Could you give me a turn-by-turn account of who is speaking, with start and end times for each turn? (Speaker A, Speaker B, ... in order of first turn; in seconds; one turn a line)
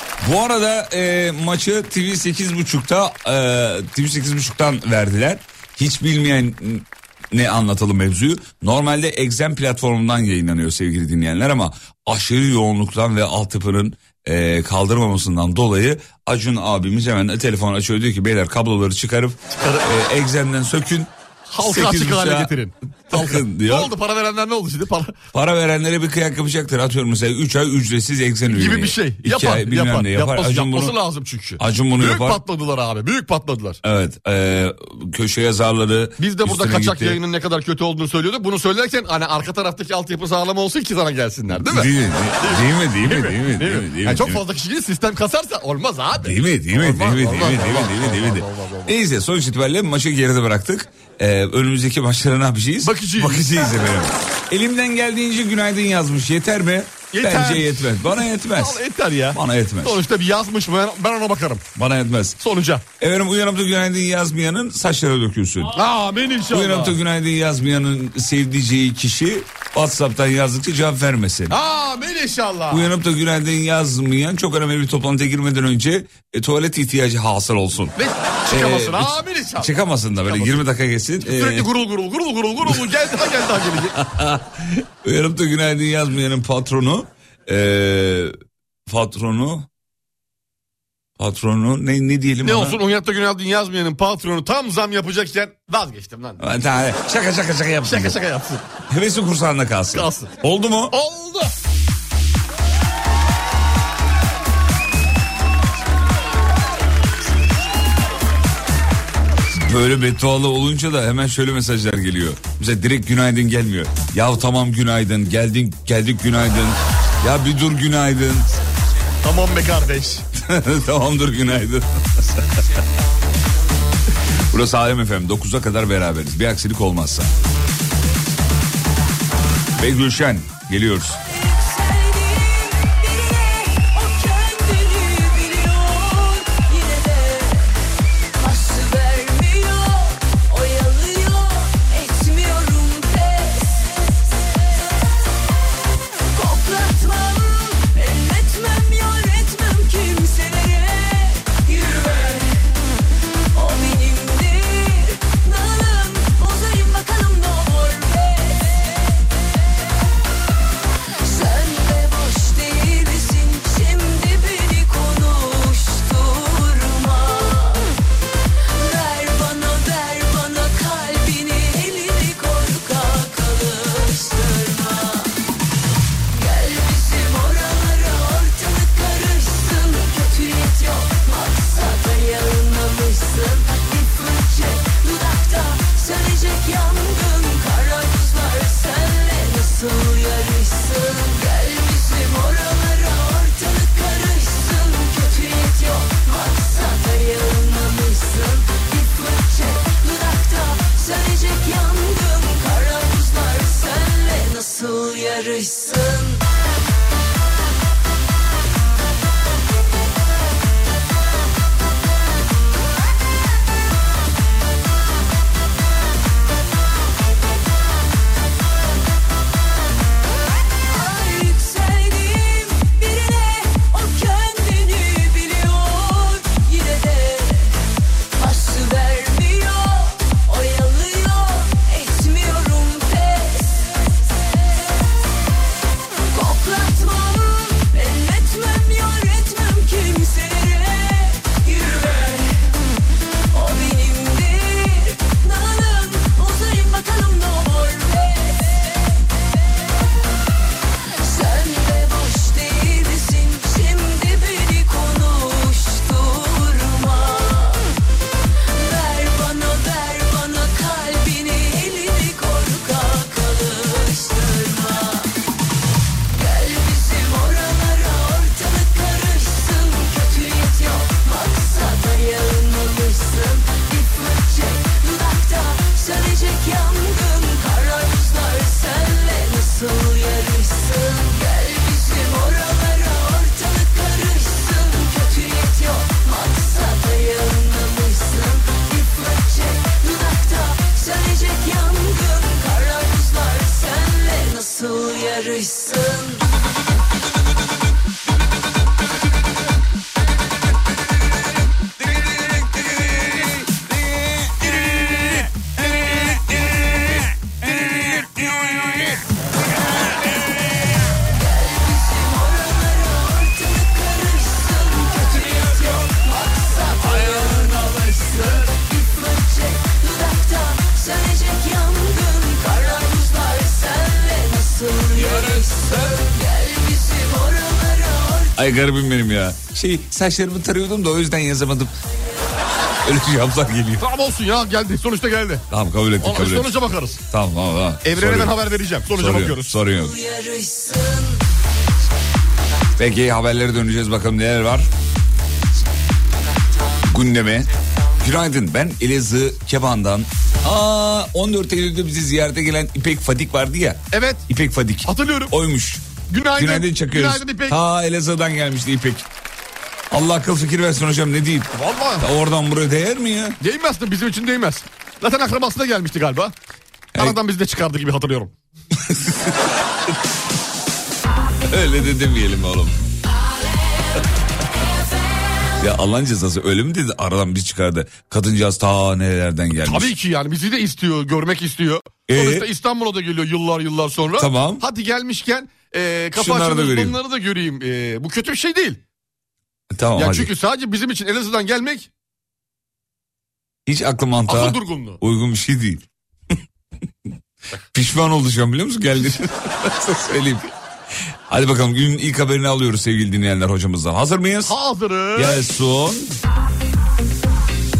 Speaker A: 0.2-22.5
Speaker B: 19.6-19.9
Speaker B: 21.5-25.2
Speaker A: 23.1-23.9
Speaker A: 25.3-31.0
Speaker B: 28.5-33.8
Speaker A: 31.6-32.4
Speaker A: 33.8-37.2
Speaker B: 36.2-41.9
Speaker A: 41.5-44.4
Speaker B: 42.4-48.9
Speaker A: 46.2-58.8
Speaker B: 52.8-53.6
Speaker B: 57.1-61.7
Speaker A: 59.3-60.0
Speaker A: 61.7-62.4
Speaker B: 62.4-62.8
Speaker A: 63.0-65.8
Speaker B: 65.7-67.0
Speaker A: 66.5-71.5
Speaker B: 71.5-72.9
Speaker A: 72.7-78.0
Speaker B: 78.0-79.7
Speaker A: 78.5-81.7
Speaker B: 80.3-80.6
Speaker B: 81.2-84.0
Speaker A: 82.6-82.9
Speaker A: 83.9-88.3
Speaker A: 88.9-89.7
Speaker A: 91.2-92.8
Speaker B: 92.4-96.4
Speaker A: 96.4-98.2
Speaker B: 97.8-98.6
Speaker A: 98.9-100.9
Speaker B: 99.9-100.3
Speaker B: 100.9-101.5
Speaker A: 109.5-118.5
Speaker B: 119.2-120.2
Speaker A: 120.3-122.6
Speaker A: 124.5-127.3
Speaker A: 129.8-131.2
Speaker C: 131.3-137.8
Speaker C: 138.4-144.0
Speaker C: 146.3-152.6
Speaker C: 153.5-159.2
Speaker C: 161.2-167.9
Speaker C: 168.7-175.3
Speaker C: 176.3-206.4
Speaker C: 220.9-227.8
Speaker C: 228.3-234.0
Speaker C: 236.3-242.6
Speaker C: 243.5-249.2
Speaker C: 251.2-257.9
Speaker C: 258.7-265.3
Speaker C: 266.3-296.4
Speaker A: 302.3-309.2
Speaker A: 309.8-310.6
Speaker C: 311.2-328.6
Speaker A: 317.0-318.2
Speaker A: 325.1-326.1
Speaker A: 328.6-331.9
Speaker A: 333.0-334.0
Speaker B: 334.0-335.6
Speaker A: 335.7-336.8
Speaker B: 336.2-337.2
Speaker A: 337.3-338.6
Speaker B: 338.0-339.8
Speaker A: 339.1-340.1
Speaker C: 339.9-341.4
Speaker A: 343.0-344.9
Speaker A: 347.1-347.7
Speaker A: 348.2-359.3
Speaker B: 354.1-354.4
Speaker B: 355.0-355.5
Speaker B: 356.3-357.8
Speaker A: 360.1-363.6
Speaker B: 361.7-362.2
Speaker B: 363.6-366.5
Speaker B: 367.1-368.5
Speaker A: 369.0-369.6
Speaker A: 371.7-373.0
Speaker A: 375.8-380.1
Speaker B: 379.8-389.0
Speaker A: 382.3-382.7
Speaker A: 384.4-384.8
Speaker A: 386.3-387.2
Speaker A: 389.9-390.5
Speaker B: 390.1-392.1
Speaker A: 393.9-396.0
Speaker B: 394.5-395.2
Speaker A: 397.9-400.7
Speaker A: 401.5-404.7
Speaker B: 404.6-405.6
Speaker A: 405.3-406.4